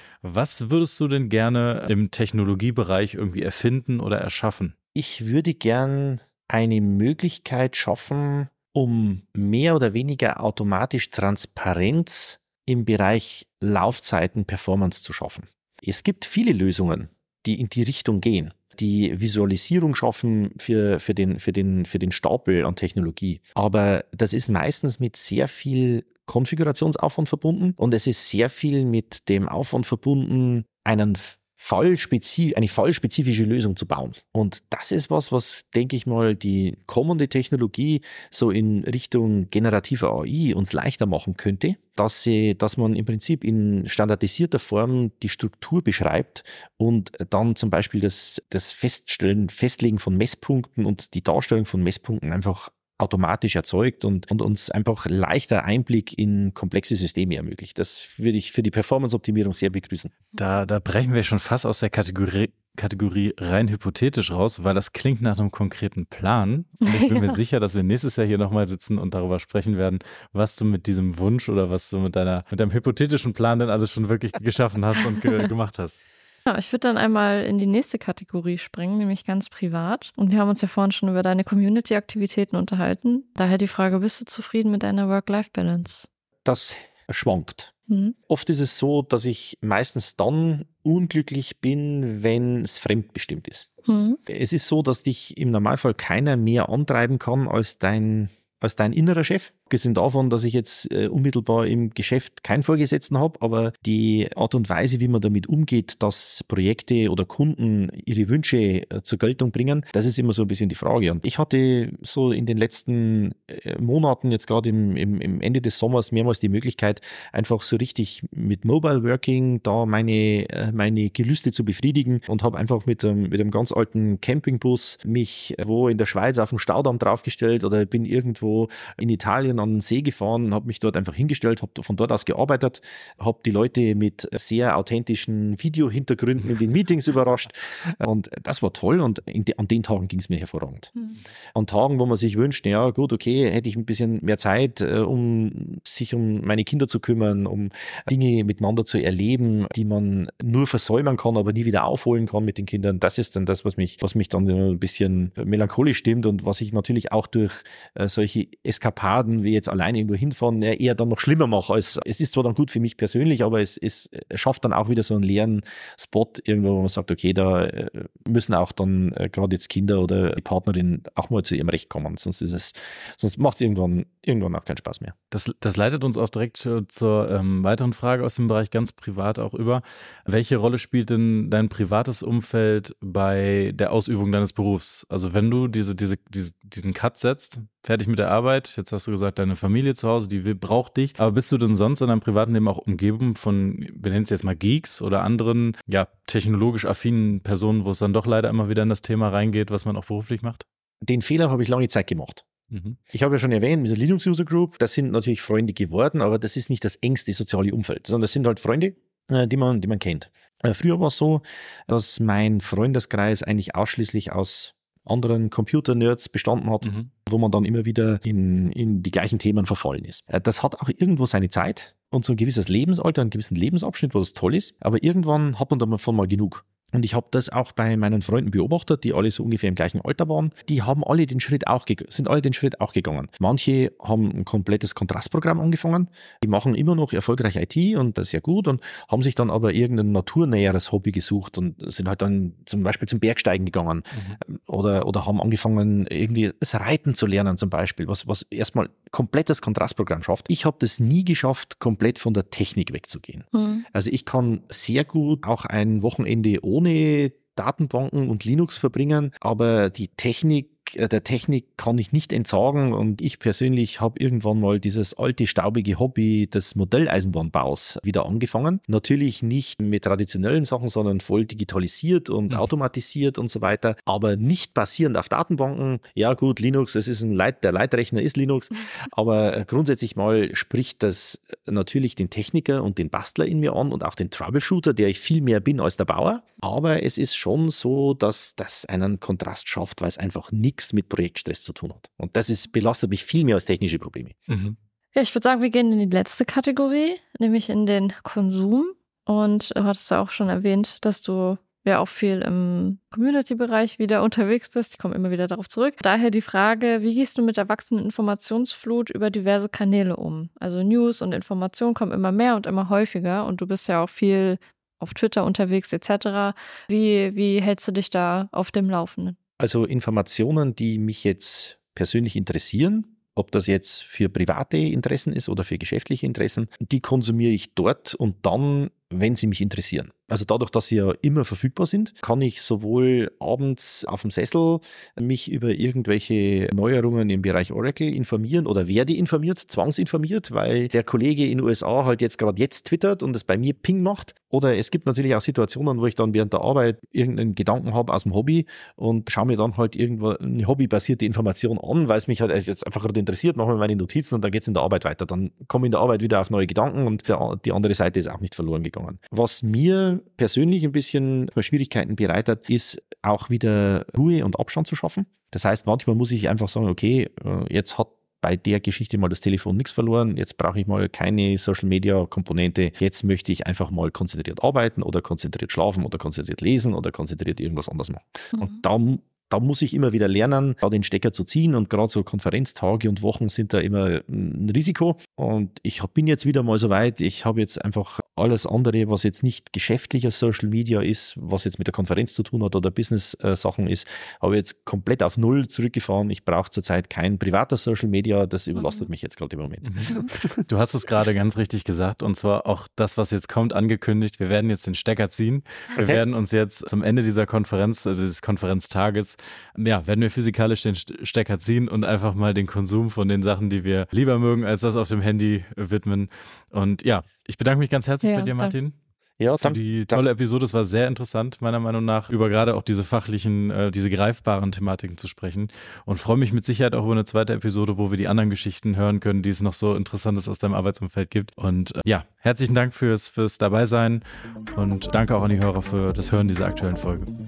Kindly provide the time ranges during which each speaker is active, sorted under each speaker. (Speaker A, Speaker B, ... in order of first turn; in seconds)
Speaker A: 0.2-4.7, 60.4-76.0, 175.3-200.6, 202.7-203.0, 216.8-217.1, 244.1-244.4, 294.5-294.8, 399.8-418.9, 419.6-437.3
Speaker B: 4.9-60.1, 86.4-87.7, 88.3-93.7, 94.3-140.9, 141.5-175.1, 201.0-202.4, 203.1-294.4, 319.6-400.6, 405.9-406.2, 419.4-420.2
Speaker C: 66.8-67.3, 76.5-86.1, 87.9-88.1, 93.8-94.2, 140.9-141.2, 253.5-253.8, 295.1-319.4, 378.5-378.8, 398.8-399.1, 418.2-418.7